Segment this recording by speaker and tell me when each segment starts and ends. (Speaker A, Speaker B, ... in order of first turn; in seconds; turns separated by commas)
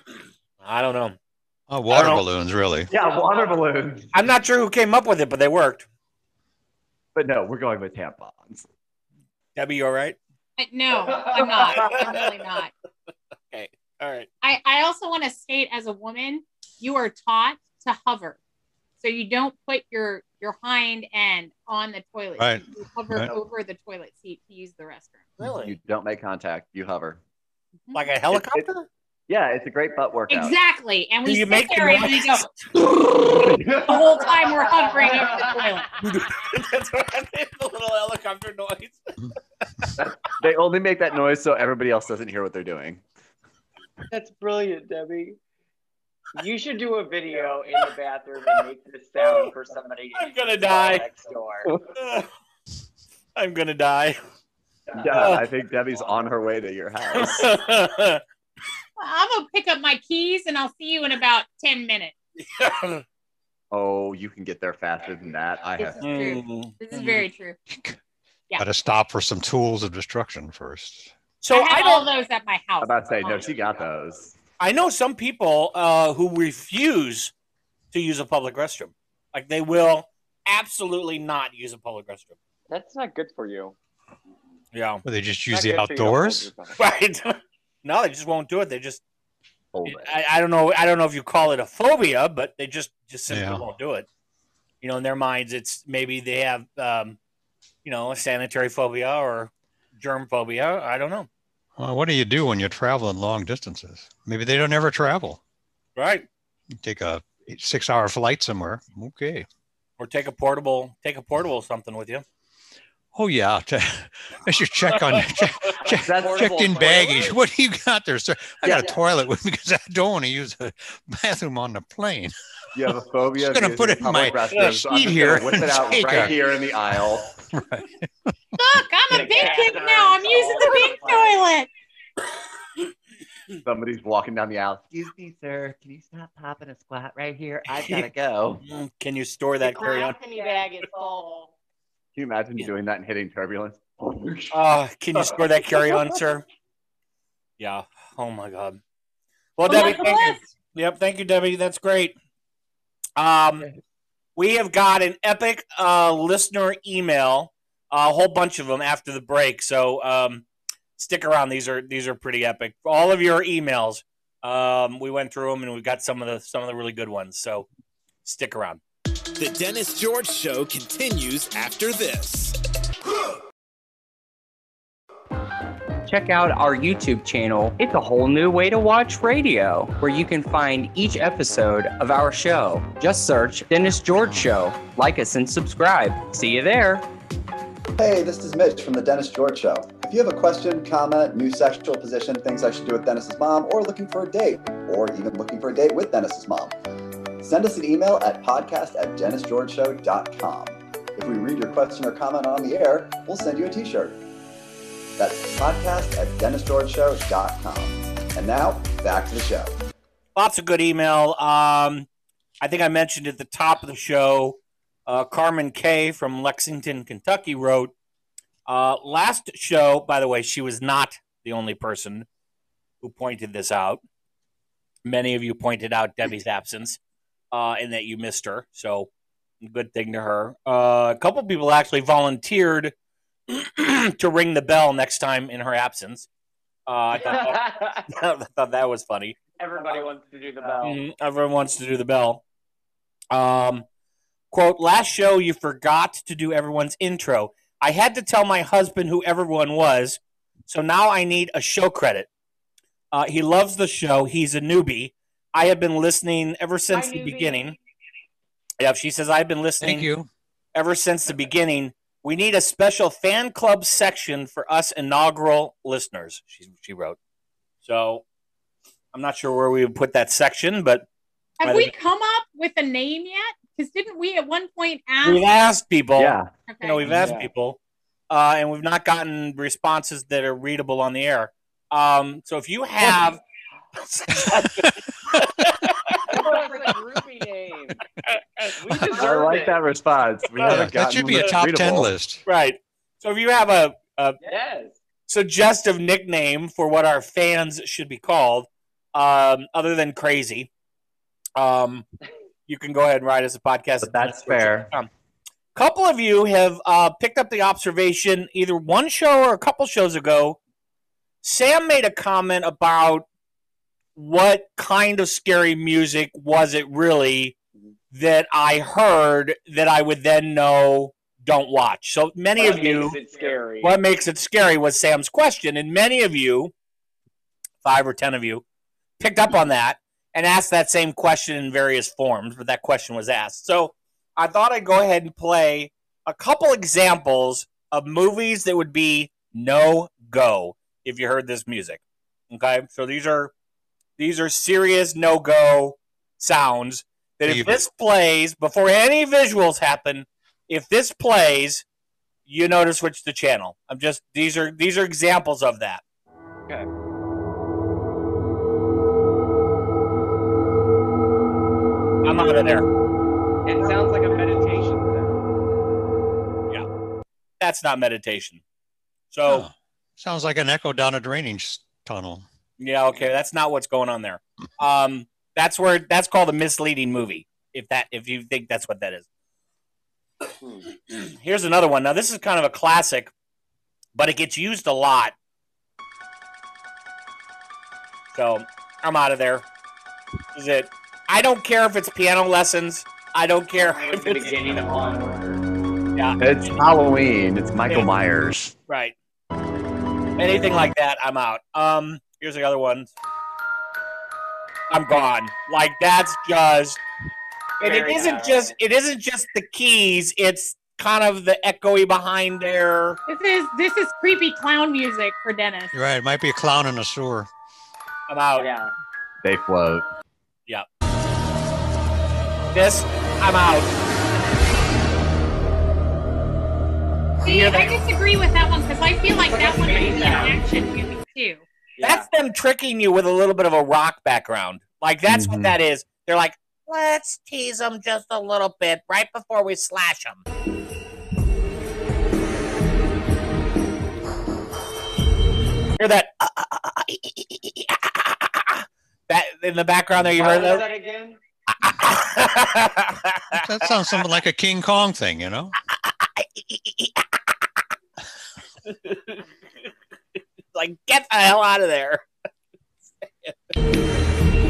Speaker A: 0.6-1.2, Speaker B: 1.7-2.9, Speaker A: 1.9-2.2, Speaker C: 2.9-4.1, Speaker A: 4.1-5.9, Speaker C: 7.2-8.7, Speaker A: 9.6-10.2, Speaker D: 10.6-12.7, Speaker A: 11.6-12.2, Speaker A: 13.5-14.3, Speaker D: 14.4-18.4, Speaker D: 19.0-25.3, Speaker B: 22.4-23.3, Speaker A: 25.4-25.8, Speaker C: 25.5-27.2, Speaker A: 27.9-28.9, Speaker C: 28.3-28.7, Speaker C: 29.3-30.6, Speaker D: 30.3-32.5, Speaker A: 31.2-32.5, Speaker C: 32.7-34.2, Speaker D: 33.8-35.9, Speaker A: 36.0-39.2, Speaker C: 40.2-43.0, Speaker E: 44.1-45.4, Speaker E: 46.4-51.8, Speaker A: 49.2-49.5, Speaker A: 50.2-51.1, Speaker A: 52.0-52.3, Speaker A: 53.4-54.2, Speaker C: 55.0-57.5, Speaker A: 55.1-55.4, Speaker A: 57.1-58.2, Speaker D: 59.0-62.1, Speaker A: 62.4-63.0, Speaker C: 63.7-66.3, Speaker D: 65.8-67.6, Speaker A: 66.0-67.3, Speaker B: 67.7-68.0, Speaker B: 68.6-71.1, Speaker A: 71.4-72.1, Speaker D: 71.5-73.5, Speaker C: 72.8-74.3, Speaker A: 74.6-77.3, Speaker A: 77.9-82.4, Speaker E: 82.7-83.8, Speaker A: 84.7-85.0, Speaker B: 85.0-86.5, Speaker E: 85.5-86.8, Speaker A: 86.8-89.0, Speaker C: 89.7-90.1, Speaker A: 89.8-94.1, Speaker B: 93.3-93.6, Speaker A: 94.8-97.2, Speaker A: 97.8-101.3, Speaker B: 101.8-105.4, Speaker A: 106.0-106.3, Speaker B: 106.8-109.5, Speaker A: 110.0-112.2, Speaker B: 113.1-122.3, Speaker C: 115.9-117.2, Speaker E: 116.2-117.2, Speaker C: 118.6-119.0, Speaker C: 122.8-127.4, Speaker B: 123.4-126.4, Speaker B: 127.5-127.9, Speaker D: 128.6-131.7, Speaker E: 129.1-131.3, Speaker C: 133.6-138.6, Speaker A: 138.6-140.2, Speaker E: 140.2-140.9, Speaker F: 140.3-140.6, Speaker C: 142.2-144.6, Speaker A: 144.5-146.4, Speaker C: 145.2-146.0, Speaker A: 147.6-148.8, Speaker A: 149.6-152.2, Speaker D: 149.7-150.5, Speaker A: 153.2-153.7, Speaker A: 154.4-160.5, Speaker A: 161.0-167.7, Speaker A: 168.2-168.8, Speaker G: 169.4-172.6, Speaker F: 176.1-187.0, Speaker H: 188.0-196.8, Speaker H: 197.4-204.2, Speaker H: 205.2-209.7, Speaker A: 210.3-212.1, Speaker A: 212.6-217.9, Speaker A: 218.7-222.3, Speaker A: 223.0-224.0, Speaker A: 225.1-227.0, Speaker A: 227.5-229.1, Speaker A: 229.6-232.9, Speaker A: 233.5-236.3, Speaker A: 236.9-239.4, Speaker E: 237.2-238.0, Speaker E: 239.6-241.0, Speaker A: 240.8-242.4, Speaker A: 243.3-243.8, Speaker A: 244.5-252.3, Speaker A: 253.1-257.8, Speaker E: 256.9-257.6, Speaker A: 258.8-260.1, Speaker B: 259.8-260.3, Speaker A: 260.8-267.2, Speaker A: 267.8-268.2, Speaker A: 269.1-271.1, Speaker D: 271.6-275.4, Speaker A: 271.6-271.9, Speaker A: 275.2-277.8, Speaker C: 276.2-276.5, Speaker D: 276.7-277.1, Speaker E: 277.1-277.5, Speaker A: 278.3-283.4, Speaker A: 284.0-286.4, Speaker B: 284.5-284.9, Speaker E: 286.3-288.0, Speaker A: 288.4-288.7, Speaker E: 288.8-289.8, Speaker C: 289.1-292.1, Speaker B: 290.6-292.4, Speaker A: 292.5-294.4, Speaker E: 294.4-295.0, Speaker A: 295.3-300.7, Speaker A: 301.6-302.1, Speaker A: 302.7-305.1, Speaker C: 304.0-304.9, Speaker A: 305.8-310.6, Speaker A: 311.4-313.3, Speaker A: 314.2-317.6, Speaker A: 318.1-323.2, Speaker E: 322.6-324.0, Speaker A: 323.8-326.7, Speaker A: 327.8-328.6, Speaker A: 329.2-343.5, Speaker A: 344.2-351.9, Speaker B: 347.4-347.8, Speaker A: 352.5-356.0, Speaker A: 362.2-362.9, Speaker E: 363.7-365.4, Speaker A: 367.6-368.6, Speaker A: 369.3-369.7, Speaker B: 369.5-372.4, Speaker A: 372.8-379.3, Speaker A: 381.1-383.3, Speaker A: 384.1-385.4, Speaker A: 388.3-389.7, Speaker A: 390.5-394.9, Speaker E: 393.9-395.6, Speaker A: 396.2-396.8, Speaker C: 396.4-398.7, Speaker A: 398.9-399.1, Speaker A: 400.4-403.1, Speaker A: 404.9-407.0, Speaker E: 407.8-408.7, Speaker A: 407.8-413.2, Speaker D: 413.3-415.9, Speaker B: 415.9-417.5, Speaker A: 418.3-418.7, Speaker E: 418.6-418.9, Speaker C: 419.4-420.1, Speaker A: 422.7-423.9, Speaker A: 427.4-427.9, Speaker D: 427.4-431.6, Speaker E: 429.5-430.5, Speaker E: 432.0-432.3, Speaker A: 432.0-440.4, Speaker C: 435.3-435.8, Speaker A: 446.0-450.9, Speaker E: 450.4-451.4, Speaker A: 451.8-453.7, Speaker B: 453.5-455.7, Speaker A: 456.4-457.2, Speaker A: 458.9-459.4, Speaker A: 460.8-462.3, Speaker A: 463.3-463.6